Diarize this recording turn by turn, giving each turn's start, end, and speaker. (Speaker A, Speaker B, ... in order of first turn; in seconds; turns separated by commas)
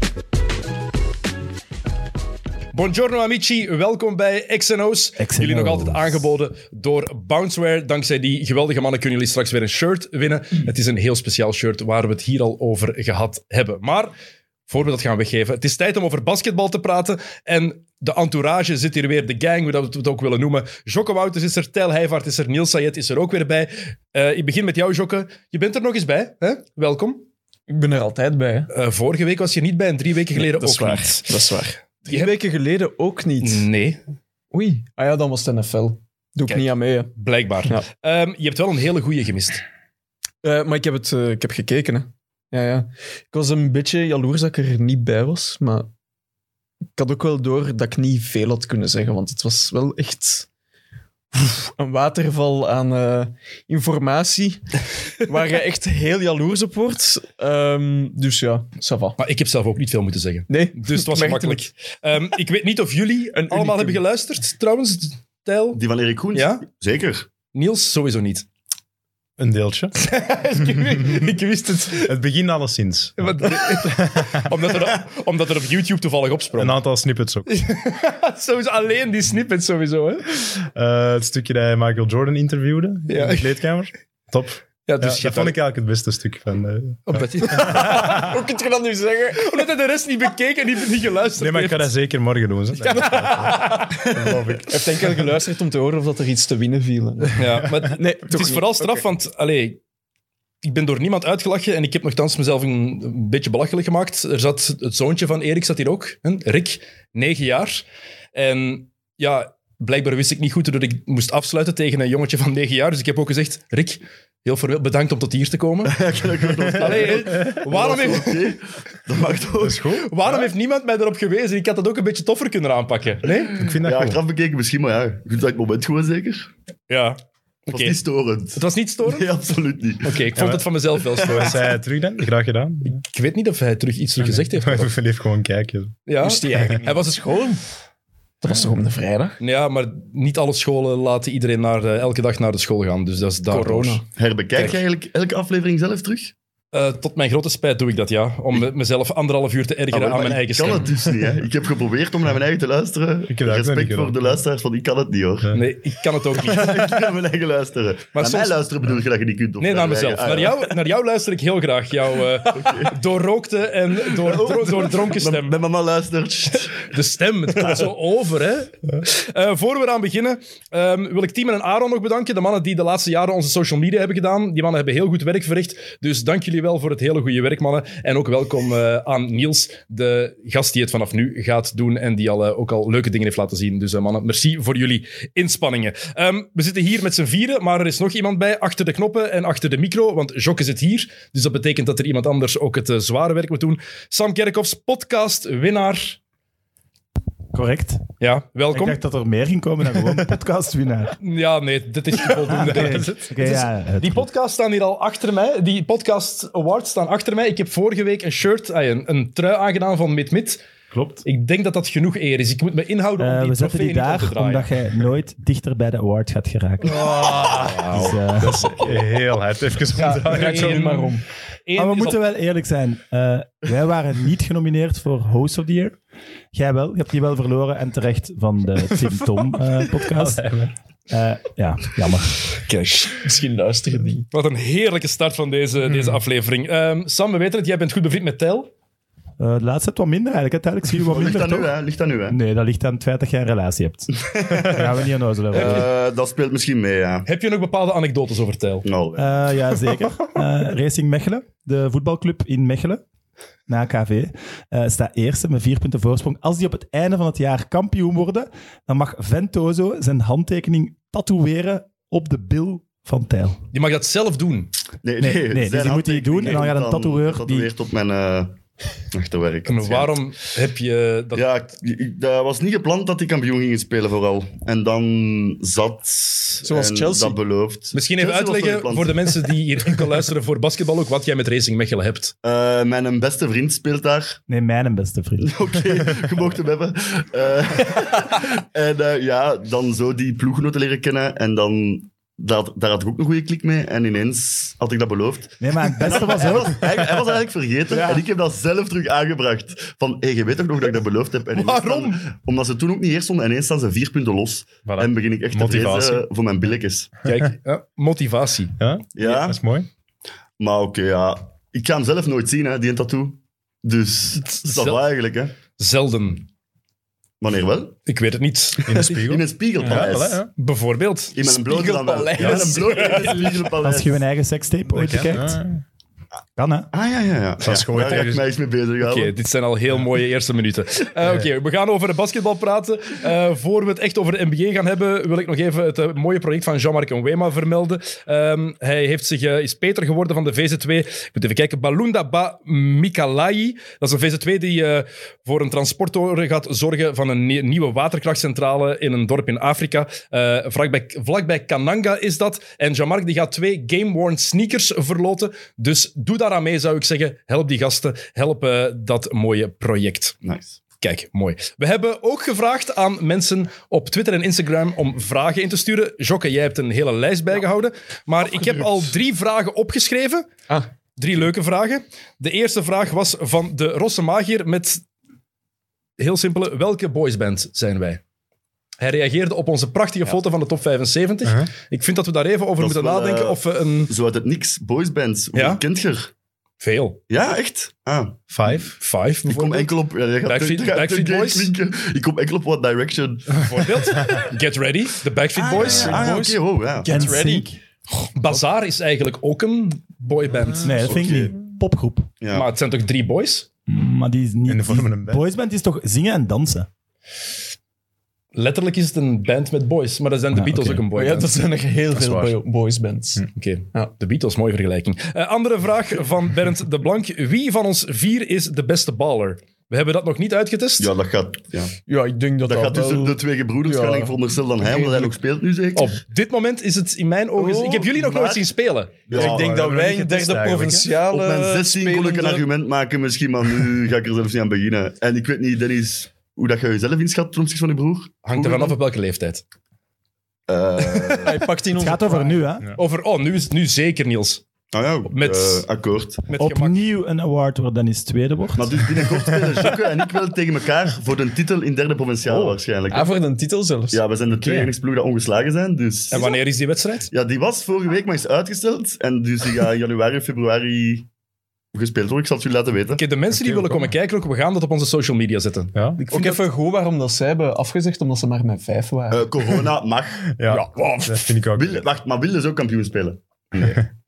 Speaker A: 2.7-14.1, Speaker B: 5.2-6.2, Speaker A: 14.7-27.2, Speaker C: 27.7-28.7, Speaker A: 28.7-31.4, Speaker C: 30.4-33.7, Speaker A: 32.1-32.3, Speaker A: 33.4-34.0, Speaker C: 34.5-37.1, Speaker A: 36.5-39.6, Speaker C: 40.4-45.9, Speaker C: 47.0-50.5, Speaker C: 51.3-59.2, Speaker A: 59.2-65.8, Speaker C: 60.5-61.7, Speaker C: 63.4-64.0, Speaker D: 65.8-67.3, Speaker A: 66.3-66.7, Speaker A: 67.5-68.5, Speaker E: 69.4-70.0, Speaker A: 70.0-72.1, Speaker E: 70.7-71.2, Speaker E: 72.0-74.5, Speaker A: 73.2-76.8, Speaker E: 76.6-77.5, Speaker A: 77.5-80.6, Speaker E: 80.7-88.4, Speaker A: 83.1-83.5, Speaker A: 84.9-85.6, Speaker A: 87.1-88.2, Speaker C: 87.5-89.5, Speaker A: 89.4-91.9, Speaker E: 91.4-95.1, Speaker A: 92.8-94.0, Speaker C: 92.9-93.9, Speaker C: 94.7-99.0, Speaker A: 97.3-99.8, Speaker A: 100.6-116.0, Speaker D: 115.8-119.8, Speaker A: 116.7-118.5, Speaker E: 119.6-120.5, Speaker A: 120.0-123.6, Speaker E: 123.6-124.2, Speaker D: 123.6-126.5, Speaker A: 126.9-128.0, Speaker D: 127.7-130.3, Speaker A: 128.6-129.3, Speaker A: 130.0-131.6, Speaker E: 130.4-133.0, Speaker D: 131.3-131.6, Speaker A: 132.9-134.9, Speaker E: 134.2-136.0, Speaker A: 136.1-137.4, Speaker C: 136.2-137.6, Speaker C: 138.4-139.4, Speaker A: 139.4-144.0, Speaker C: 143.5-144.0, Speaker D: 144.2-146.3, Speaker A: 144.6-144.8, Speaker A: 146.7-150.9, Speaker D: 149.9-155.6, Speaker E: 153.3-154.4, Speaker A: 155.5-156.9, Speaker D: 156.4-160.7, Speaker A: 158.2-158.6, Speaker A: 159.6-165.5, Speaker D: 162.5-163.0, Speaker D: 164.2-166.9, Speaker A: 166.7-196.2, Speaker B: 197.5-198.0, Speaker A: 198.2-199.0, Speaker B: 198.7-201.2, Speaker A: 201.2-210.6, Speaker B: 202.3-204.3, Speaker E: 202.8-203.1, Speaker E: 210.9-211.2, Speaker A: 211.2-214.7, Speaker B: 213.2-217.1, Speaker E: 216.8-221.0, Speaker A: 217.5-219.0, Speaker B: 217.9-218.7, Speaker C: 220.1-221.2, Speaker A: 220.3-221.2, Speaker A: 221.7-222.2, Speaker B: 221.8-226.0, Speaker B: 226.5-230.5, Speaker E: 230.1-230.7, Speaker B: 231.1-232.5, Speaker C: 232.7-234.3, Speaker A: 234.3-238.7, Speaker E: 235.9-236.2, Speaker B: 239.4-241.7, Speaker D: 241.1-242.4, Speaker B: 242.3-245.9, Speaker D: 244.2-244.9, Speaker D: 245.5-247.3, Speaker A: 247.3-248.9, Speaker D: 248.8-249.6, Speaker B: 249.2-253.0, Speaker B: 253.7-263.6, Speaker A: 263.7-264.7, Speaker D: 265.0-268.6, Speaker B: 265.2-267.7, Speaker D: 269.1-270.1, Speaker A: 269.7-271.5, Speaker D: 271.4-279.6, Speaker C: 276.6-277.4, Speaker A: 277.9-282.3, Speaker D: 282.4-284.4, Speaker B: 284.5-286.0, Speaker D: 285.4-307.1, Speaker B: 295.6-297.2, Speaker B: 297.9-298.2, Speaker A: 301.6-302.3, Speaker E: 304.9-306.3, Speaker A: 307.2-308.8, Speaker E: 308.8-309.9, Speaker D: 309.2-309.6, Speaker D: 310.6-315.5, Speaker A: 314.4-315.0, Speaker A: 315.8-316.5, Speaker D: 317.4-318.0, Speaker A: 318.1-319.1, Speaker E: 318.8-320.5, Speaker D: 319.0-320.5, Speaker A: 320.6-321.4, Speaker D: 321.4-324.2, Speaker C: 321.4-323.6, Speaker E: 322.4-322.7, Speaker B: 323.8-325.6, Speaker E: 324.9-325.8, Speaker B: 326.6-326.9, Speaker D: 326.9-329.3, Speaker E: 327.6-328.5, Speaker A: 329.0-360.4, Speaker D: 360.4-360.8, Speaker A: 361.0-370.6, Speaker A: 371.2-375.0, Speaker A: 376.2-378.2, Speaker A: 379.0-384.1, Speaker D: 382.8-386.3, Speaker A: 385.5-385.8, Speaker A: 386.8-387.2, Speaker D: 387.3-388.4, Speaker E: 388.5-388.9, Speaker A: 388.7-389.9, Speaker D: 389.4-394.4, Speaker A: 390.4-391.7, Speaker A: 393.6-396.3, Speaker D: 395.6-397.1, Speaker C: 395.8-398.3, Speaker B: 397.1-397.8, Speaker A: 398.4-401.0, Speaker E: 400.7-401.0, Speaker B: 400.8-402.3, Speaker D: 401.0-401.5, Speaker D: 402.4-402.7, Speaker A: 402.5-403.7, Speaker B: 403.9-406.9, Speaker E: 404.7-405.4, Speaker A: 408.5-411.5, Speaker E: 410.6-411.0, Speaker C: 411.1-414.1, Speaker E: 412.1-412.6, Speaker A: 413.5-421.1, Speaker D: 421.0-422.0, Speaker C: 422.1-425.3, Speaker D: 422.7-426.1, Speaker A: 425.9-429.3, Speaker C: 427.6-428.6, Speaker D: 429.3-429.7, Speaker E: 429.3-431.1, Speaker C: 429.3-432.6, Speaker D: 431.3-438.4, Speaker A: 438.4-439.6, Speaker C: 438.6-438.9, Speaker D: 440.7-441.6, Speaker A: 441.0-441.4, Speaker C: 441.4-442.6, Speaker B: 442.0-442.9, Speaker A: 443.0-444.6, Speaker D: 444.9-446.5, Speaker A: 445.3-445.9, Speaker A: 446.5-447.0, Speaker B: 446.6-449.3, Speaker D: 448.8-453.3, Speaker C: 453.1-454.2, Speaker D: 454.1-456.6, Speaker E: 454.6-454.9, Speaker A: 456.3-457.3, Speaker D: 457.3-461.3, Speaker D: 461.9-463.2, Speaker A: 463.2-466.6, Speaker E: 463.5-464.1, Speaker E: 465.9-466.2, Speaker C: 466.2-469.8, Speaker D: 469.3-470.5, Speaker E: 470.5-472.1, Speaker C: 470.7-471.4, Speaker D: 471.7-474.1